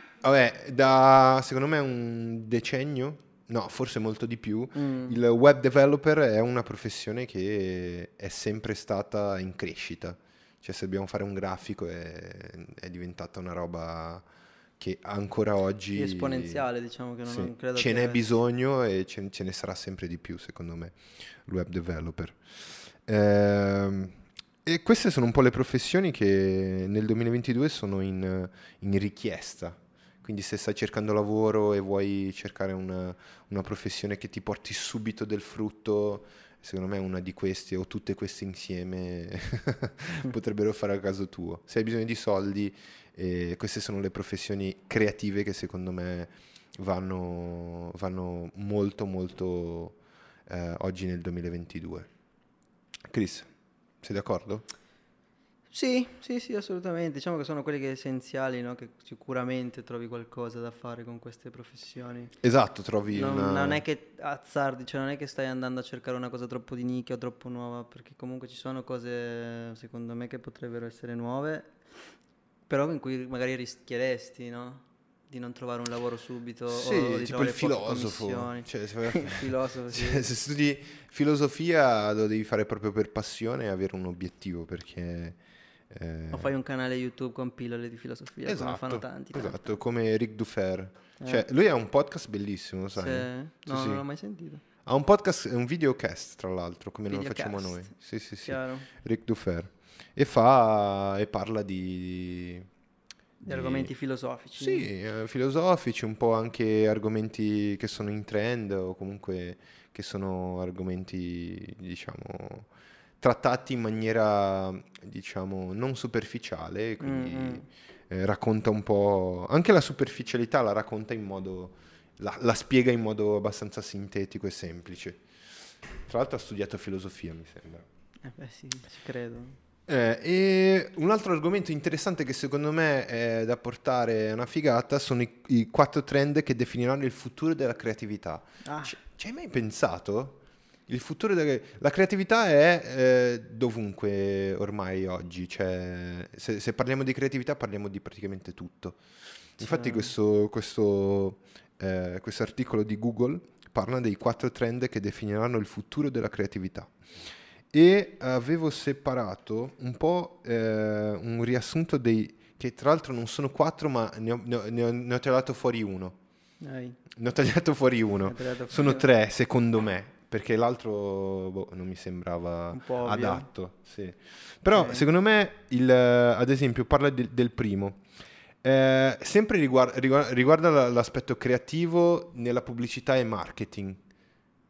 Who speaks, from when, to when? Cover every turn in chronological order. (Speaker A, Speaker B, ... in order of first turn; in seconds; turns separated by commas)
Speaker A: 0.2-14.2, Speaker B: 4.7-5.2, Speaker A: 14.8-16.6, Speaker B: 15.9-18.2, Speaker A: 17.3-52.1, Speaker A: 53.1-53.5, Speaker A: 54.0-54.6, Speaker B: 55.7-62.3, Speaker A: 62.4-63.8, Speaker B: 63.1-71.8, Speaker B: 72.7-80.3, Speaker A: 76.7-85.4, Speaker A: 85.9-86.5, Speaker B: 86.3-89.7, Speaker A: 88.5-94.0, Speaker B: 91.2-91.5, Speaker B: 92.9-94.6, Speaker A: 94.8-102.7, Speaker B: 97.1-97.9, Speaker B: 98.4-98.9, Speaker B: 103.4-104.9, Speaker A: 103.5-103.9, Speaker A: 104.6-112.7, Speaker A: 113.2-125.2, Speaker B: 117.0-117.7, Speaker A: 126.0-127.8, Speaker B: 128.2-129.6, Speaker A: 129.9-157.0, Speaker B: 138.6-138.9, Speaker B: 149.6-150.1, Speaker A: 157.7-166.2, Speaker B: 166.6-167.0, Speaker A: 167.1-178.0, Speaker B: 168.2-169.0, Speaker B: 172.7-173.5, Speaker B: 174.7-175.1, Speaker A: 178.6-184.0